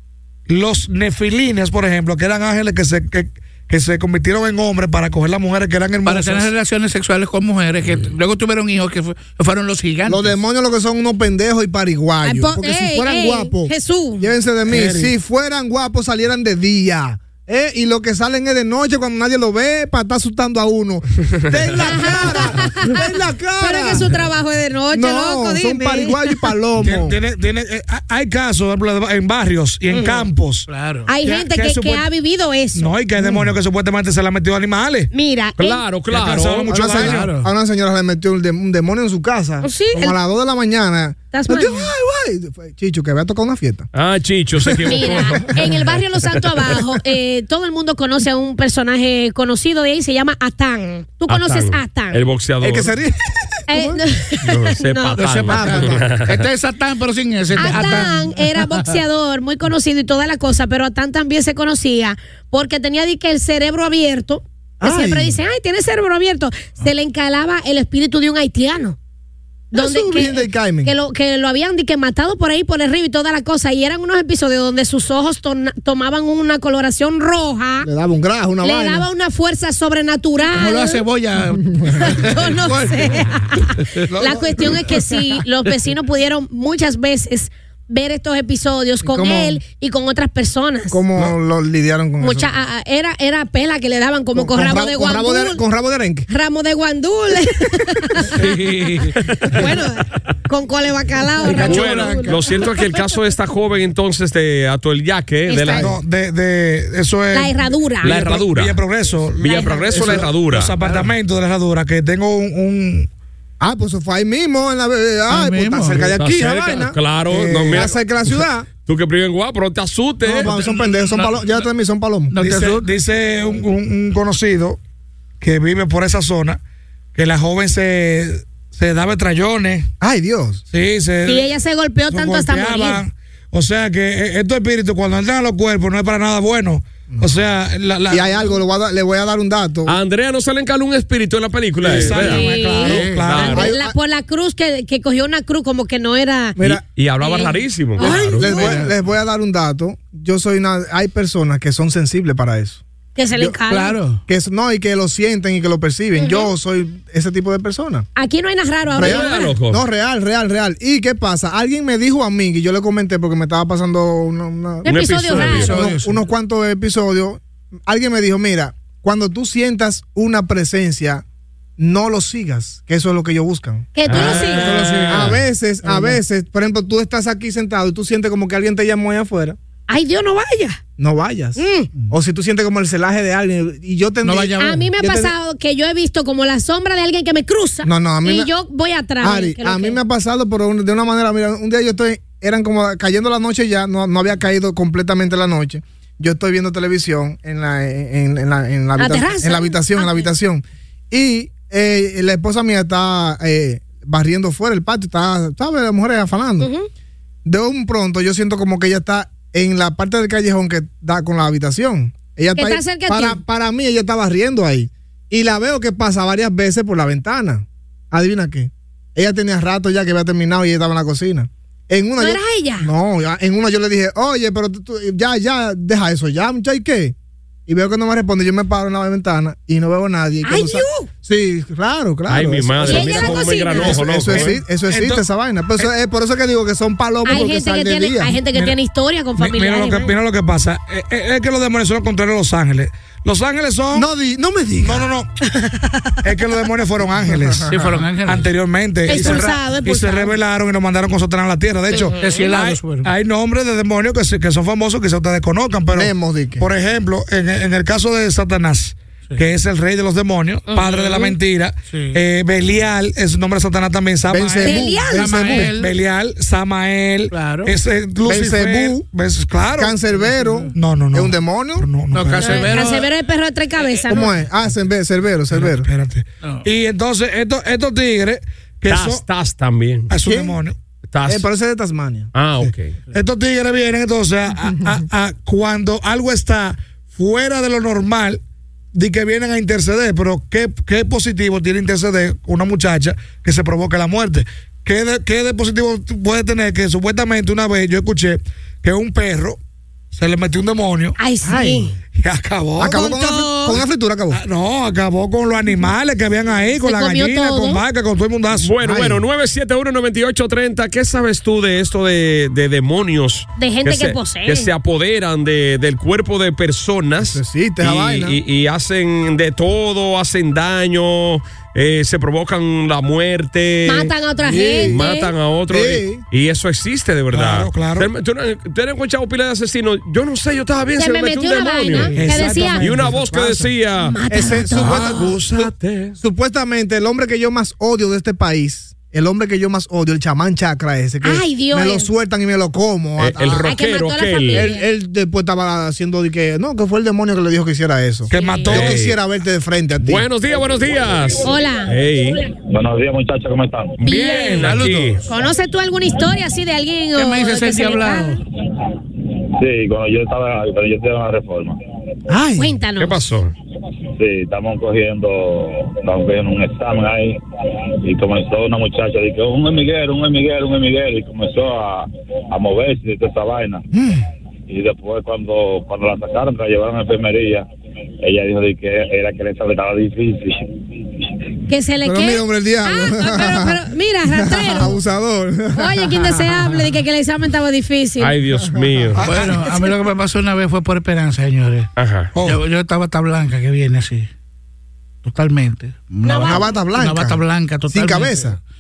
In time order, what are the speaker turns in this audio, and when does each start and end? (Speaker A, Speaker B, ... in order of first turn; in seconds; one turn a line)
Speaker A: 0.5-6.5
Speaker B: 6.1-10.4
Speaker C: 10.1-24.2
Speaker D: 12.2-14.3
Speaker E: 14.7-15.1
Speaker D: 21.8-23.1
Speaker D: 23.6-26.3
Speaker C: 24.9-27.1
Speaker A: 26.8-30.7
Speaker D: 29.9-30.3
Speaker B: 30.7-31.1
Speaker D: 31.1-32.9
Speaker A: 31.2-32.1
Speaker A: 32.7-35.1
Speaker C: 33.2-33.5
Speaker D: 35.1-35.8
Speaker E: 35.6-36.7
Speaker A: 36.1-37.3
Speaker C: 36.7-43.9
Speaker B: 36.9-37.5
Speaker D: 39.6-40.2
Speaker D: 41.3-41.9
Speaker E: 43.9-45.8
Speaker C: 44.6-45.5
Speaker D: 44.9-52.2
Speaker E: 51.3-52.9
Speaker C: 52.6-54.0
Speaker D: 53.7-55.2
Speaker E: 54.4-56.5
Speaker B: 55.2-58.9
Speaker C: 55.5-56.1
Speaker D: 57.6-69.0
Speaker C: 57.6-58.0
Speaker C: 64.8-65.4
Speaker D: 69.7-77.9
Speaker C: 69.7-70.9
Speaker C: 77.8-79.1
Speaker D: 78.6-81.0
Speaker B: 80.5-85.2
Speaker D: 82.0-91.0
Speaker A: 84.2-84.6
Speaker C: 89.1-89.6
Speaker C: 90.9-92.5
Speaker D: 92.2-95.6
Speaker C: 94.3-96.3
Speaker D: 96.3-98.4
Speaker B: 98.3-99.7
Speaker E: 99.3-99.6
Speaker D: 99.5-102.4
Speaker B: 101.4-102.3
Speaker E: 101.6-105.9
Speaker D: 105.5-105.9
Speaker A: 105.7-113.1
Speaker D: 107.3-108.2
Speaker E: 108.0-108.8
Speaker E: 109.4-110.7
Speaker D: 109.4-110.2
Speaker B: 110.8-111.1
Speaker C: 113.6-118.7
Speaker B: 115.3-116.2
Speaker E: 116.1-118.0
Speaker E: 118.8-120.5
Speaker C: 120.2-122.4
Speaker B: 120.3-121.7
Speaker B: 122.3-122.9
Speaker A: 122.4-124.8
Speaker A: 125.4-126.6
Speaker A: 127.2-129.9
Speaker C: 130.0-130.6
Speaker A: 130.7-131.5
Speaker D: 131.3-133.0
Speaker A: 132.1-138.5
Speaker C: 137.1-137.4
Speaker C: 138.1-140.0
Speaker E: 139.9-142.5
Speaker A: 141.8-143.7
Speaker D: 142.1-146.6
Speaker B: 142.8-143.4
Speaker E: 143.2-143.7
Speaker C: 143.5-143.9
Speaker C: 146.6-146.8
Speaker E: 146.6-148.5
Speaker D: 147.2-148.8
Speaker C: 148.0-152.8
Speaker B: 148.4-148.9
Speaker D: 153.2-154.0
Speaker B: 153.7-154.2
Speaker C: 154.3-158.1
Speaker D: 156.2-156.5
Speaker D: 158.2-159.5
Speaker C: 158.9-171.2
Speaker E: 159.0-159.8
Speaker D: 164.8-165.8
Speaker E: 164.8-165.8
Speaker B: 165.3-166.2
Speaker C: 171.8-179.6
Speaker D: 173.9-174.8
Speaker E: 174.1-175.4
Speaker B: 174.6-176.2
Speaker D: 179.9-180.8
Speaker C: 181.0-181.6
Speaker D: 181.6-181.9
Speaker C: 182.1-185.3
Speaker B: 184.2-184.9
Speaker D: 184.6-190.0
Speaker C: 187.8-188.5
Speaker C: 189.2-206.7
Speaker D: 199.0-200.3
Speaker D: 206.6-206.9
Speaker C: 207.4-227.2
Speaker D: 212.6-213.4
Speaker D: 222.2-222.9
Speaker C: 227.7-238.4
Speaker D: 230.4-231.1
Speaker E: 232.3-234.6
Speaker D: 232.8-234.0
Speaker A: 234.2-235.2
Speaker D: 237.2-240.1
Speaker A: 239.4-244.1
Speaker C: 243.9-245.1
Speaker A: 244.8-245.3
Speaker A: 246.2-270.0
Speaker B: 247.7-248.5
Speaker D: 249.1-250.3
Speaker B: 249.2-249.4
Speaker D: 251.9-252.4
Speaker B: 252.1-253.1
Speaker C: 255.9-256.7
Speaker D: 260.7-261.3
Speaker B: 261.9-262.2
Speaker C: 264.3-265.7
Speaker D: 264.6-265.5
Speaker B: 265.1-265.9
Speaker B: 267.3-267.7
Speaker C: 268.2-269.0
Speaker C: 269.8-272.0
Speaker B: 270.3-270.7
Speaker A: 270.7-272.7
Speaker B: 272.1-273.1
Speaker D: 272.4-274.3
Speaker C: 274.1-275.9
Speaker A: 275.5-279.2
Speaker E: 278.9-280.1
Speaker A: 280.1-280.8
Speaker C: 280.2-280.6
Speaker E: 281.1-281.5
Speaker C: 281.3-282.3
Speaker E: 282.3-282.9
Speaker A: 282.6-288.4
Speaker A: 288.9-299.6
Speaker A: 300.1-301.2
Speaker D: 301.2-301.9
Speaker C: 301.4-301.9
Speaker A: 302.2-303.1
Speaker C: 302.8-304.4
Speaker D: 302.9-303.8
Speaker A: 304.3-308.8
Speaker D: 306.8-307.8
Speaker E: 308.6-324.1
Speaker C: 308.8-309.2
Speaker D: 313.6-314.7
Speaker C: 317.2-318.4
Speaker D: 323.9-325.3
Speaker C: 324.4-325.0
Speaker E: 324.8-332.2
Speaker C: 325.7-326.2
Speaker A: 327.3-328.1
Speaker D: 331.0-332.9
Speaker A: 332.1-333.2
Speaker C: 332.4-333.7
Speaker E: 332.8-334.2
Speaker D: 334.0-335.3
Speaker C: 334.3-343.7
Speaker E: 334.7-336.2
Speaker D: 341.2-342.1
Speaker E: 343.2-344.7
Speaker D: 343.6-344.9
Speaker C: 344.5-350.3
Speaker A: 348.3-349.0
Speaker D: 348.3-348.7
Speaker E: 348.7-349.2
Speaker E: 350.0-352.4
Speaker D: 351.4-351.9
Speaker F: 352.7-354.0
Speaker E: 354.0-355.2
Speaker D: 354.0-354.8
Speaker B: 354.5-355.3
Speaker D: 355.3-358.4
Speaker B: 357.1-358.4
Speaker F: 359.6-361.8
Speaker C: 362.3-362.8
Speaker D: 362.6-363.2
Speaker E: 363.0-363.5
Speaker F: 364.2-367.4
Speaker F: 368.0-373.9
Speaker C: 373.9-374.2
Speaker F: 374.7-377.7
Speaker F: 378.2-380.6
Speaker D: 381.7-385.0
Speaker C: 382.0-386.7
Speaker D: 385.8-388.4
Speaker E: 388.2-389.2
Speaker C: 388.6-389.5
Speaker B: 389.2-391.9
Speaker E: 392.0-392.3
Speaker A: 392.4-392.6
Speaker B: 392.4-394.3
Speaker B: 395.2-398.5
Speaker D: 396.2-396.7
Speaker C: 396.4-398.6